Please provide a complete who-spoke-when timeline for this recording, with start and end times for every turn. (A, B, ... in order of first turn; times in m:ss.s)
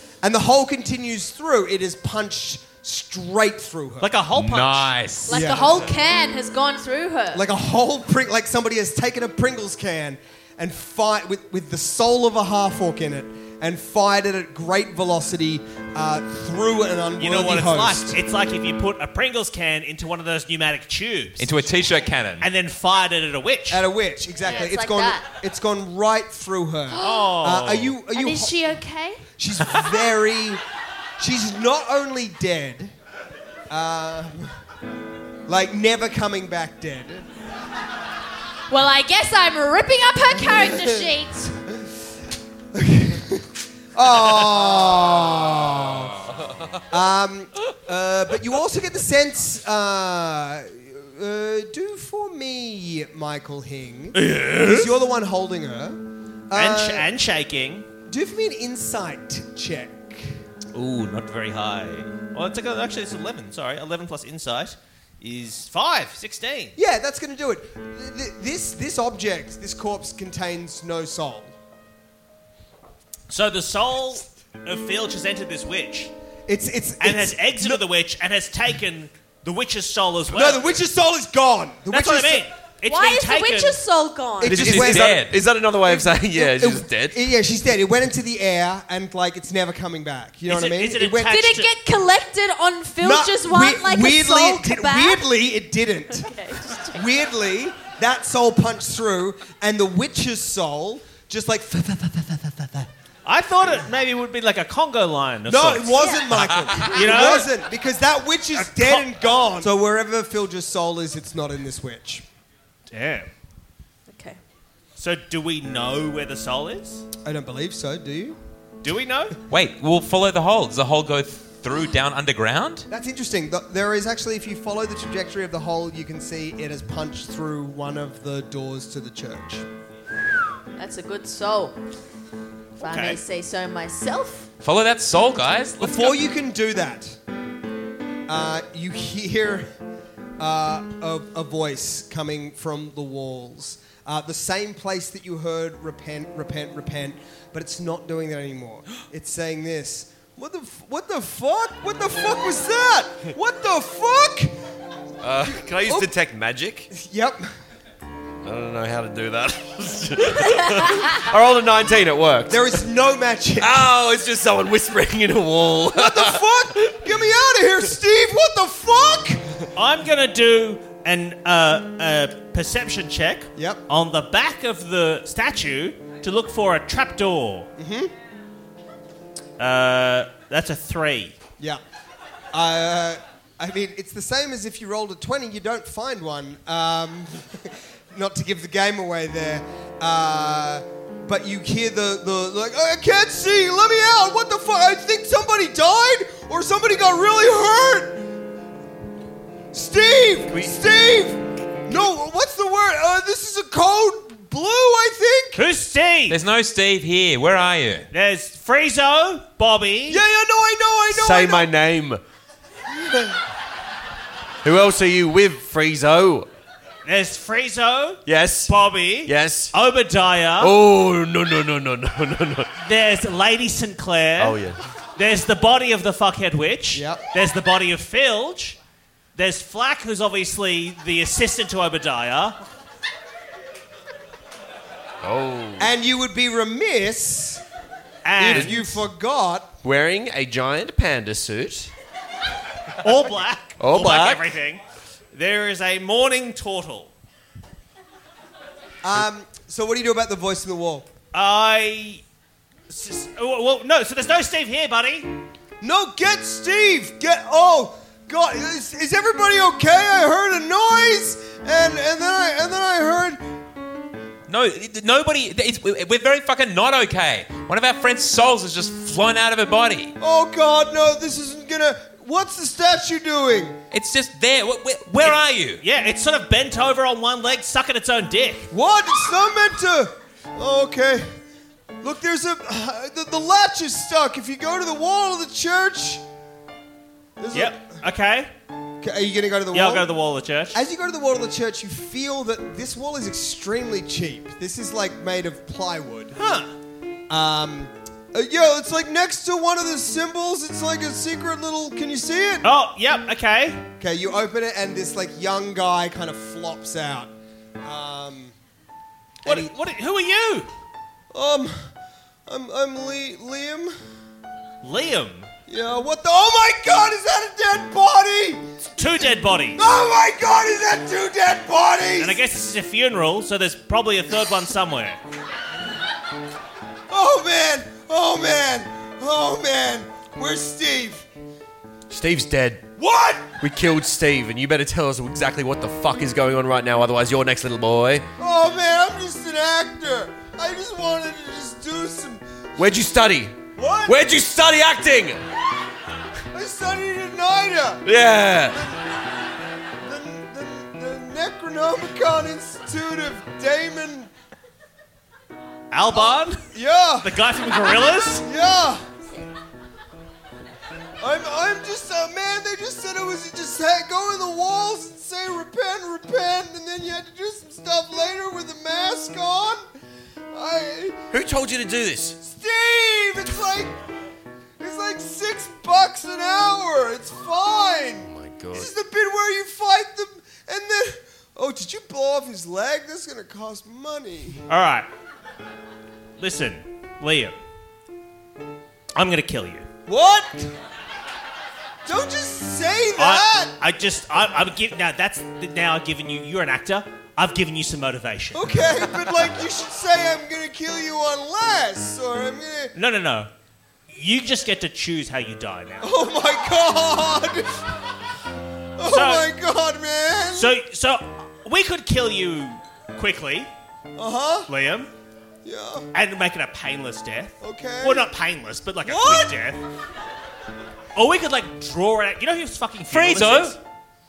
0:00.2-0:04.1 A
0:04.0-0:04.9 B
0:04.3-0:05.5 C
0:05.3-0:07.4 D
0:05.3-0:05.9 A
0:07.3-0:18.2 A
0:17.2-0:21.6 B
0:21.4-0:22.5 C
0:22.4-0:23.8 B
0:23.7-0:28.6 A
0:24.4-0:25.2 D
0:26.9-0:27.3 D
0:27.0-0:28.0 B
0:28.1-0:29.2 D
0:29.4-0:30.6 A
0:31.2-0:32.9 A
0:33.7-0:34.6 A
0:35.5-0:37.3 A
0:38.7-0:41.6 D
0:40.5-0:41.1 A
0:42.7-0:46.3 A
0:46.9-0:57.1 A
0:54.1-0:54.9 B
0:56.5-0:57.9 B
0:58.1-1:00.4 A
1:00.7-1:06.8 B
1:06.8-1:11.5 A
1:13.3-1:16.1 B
1:16.5-1:17.8 A
1:17.0-1:20.8 B
1:20.3-1:22.4 A
1:21.9-1:23.8 B
1:22.9-1:24.6 D
1:24.4-1:25.3 A
1:24.4-1:27.2 E
1:24.5-1:25.4 C
1:25.9-1:31.4 A
1:30.5-1:31.7 B
1:31.2-1:35.2 D
1:33.0-1:36.3 A
1:36.1-1:37.0 D
1:36.8-1:42.9 A
1:43.2-1:46.2 B
1:45.4-1:52.2 A
1:46.0-1:47.4 D
1:46.9-1:47.5 B
1:48.6-1:49.1 B
1:52.9-1:53.3 B
1:54.1-1:54.4 D
1:55.0-1:57.0 B
1:57.2-1:58.4 A
1:58.8-1:59.3 B
1:59.5-2:02.9 C
2:02.9-2:09.6 A
2:10.8-2:11.8 D
2:12.8-2:14.5 D
2:12.8-2:13.2 B
2:14.6-2:16.2 C
2:15.8-2:17.2 A
2:18.3-2:19.7 A
2:20.4-2:34.6 A
2:35.2-2:36.9 E
2:35.5-2:36.1 A
2:36.9-2:37.5 A
2:38.4-2:42.7 E
2:42.5-2:43.9 A
2:43.6-2:46.9 E
2:45.9-2:49.4 A
2:49.8-2:57.7 B
2:53.6-2:53.8 A
2:57.8-2:58.1 A
2:59.6-3:01.4 B
3:02.5-3:18.3 A
3:19.7-3:25.6 A
3:25.5-3:26.4 B
3:26.3-3:28.1 C
3:28.1-3:30.2 B
3:30.1-3:31.7 A
3:31.1-3:32.2 E
3:32.9-3:33.4 A
3:34.6-3:36.5 E
3:37.0-3:40.7 B
3:38.2-3:39.7 E
3:40.6-3:42.8 E
3:42.8-3:44.6 B
3:44.4-3:44.8 E
3:45.2-3:48.8 B
3:46.9-3:47.2 A
3:49.3-3:52.6 B
3:55.2-3:55.9 E
3:55.8-3:57.6 A
3:58.2-3:59.0 B
3:58.4-3:59.7 A
3:58.5-3:58.8 E
3:59.8-4:01.9 E
4:03.0-4:04.8 B
4:03.8-4:04.4 E
4:05.3-4:07.1 B
4:09.0-4:11.1 A
4:11.3-4:12.2 B
4:12.9-4:15.4 B
4:15.8-4:23.4 A
4:24.5-4:30.1 C
4:30.2-4:33.8 A
4:33.9-4:35.8 C
4:35.2-4:38.7 B
4:38.7-4:41.3 A
4:42.0-4:46.2 A
4:47.4-4:48.0 A
4:47.5-4:48.5 B
4:49.0-4:50.1 A
4:49.7-4:50.8 B
4:50.7-4:56.4 A
4:56.4-4:56.7 B
4:57.3-5:02.7 A
5:02.6-5:03.8 B
5:04.0-5:07.3 A
5:07.8-5:08.5 A
5:09.4-5:09.7 A
5:09.4-5:10.7 B
5:11.3-5:11.9 A
5:12.5-5:14.0 A
5:14.8-5:15.5 B
5:15.7-5:18.9 A
5:19.0-5:19.8 B
5:19.7-5:22.4 A
5:22.2-5:25.2 B
5:27.1-5:31.3 A
5:32.1-5:32.8 E
5:33.0-5:33.6 A
5:33.6-5:38.2 E
5:38.4-5:42.4 A
5:42.8-5:45.4 E
5:43.8-5:44.2 A
5:46.5-5:48.0 A
5:48.0-5:48.8 E
5:48.7-5:49.1 A
5:50.0-5:54.3 A
5:55.9-5:56.6 B
5:56.1-5:59.0 A
5:57.2-5:58.4 B
6:01.2-6:09.8 A
6:10.5-6:11.2 A
6:11.3-6:12.4 E
6:12.4-6:14.0 A
6:14.8-6:24.6 A
6:18.2-6:18.9 E
6:24.7-6:25.1 B
6:26.4-6:27.5 B
6:29.1-6:29.9 B
6:30.1-6:30.7 A
6:32.0-6:33.8 A
6:33.2-6:38.7 B
6:38.5-6:42.9 A
6:42.9-6:43.5 B
6:44.1-6:46.1 B
6:46.0-6:47.8 A
6:49.0-6:50.8 A
6:49.1-6:49.4 B
6:50.5-6:53.7 B
6:54.2-6:54.7 A
6:54.7-6:55.1 B
6:55.6-6:56.1 A
6:56.1-6:59.8 B
6:57.6-6:58.3 A
6:59.0-6:59.5 A
7:01.1-7:03.8 B
7:03.1-7:03.8 C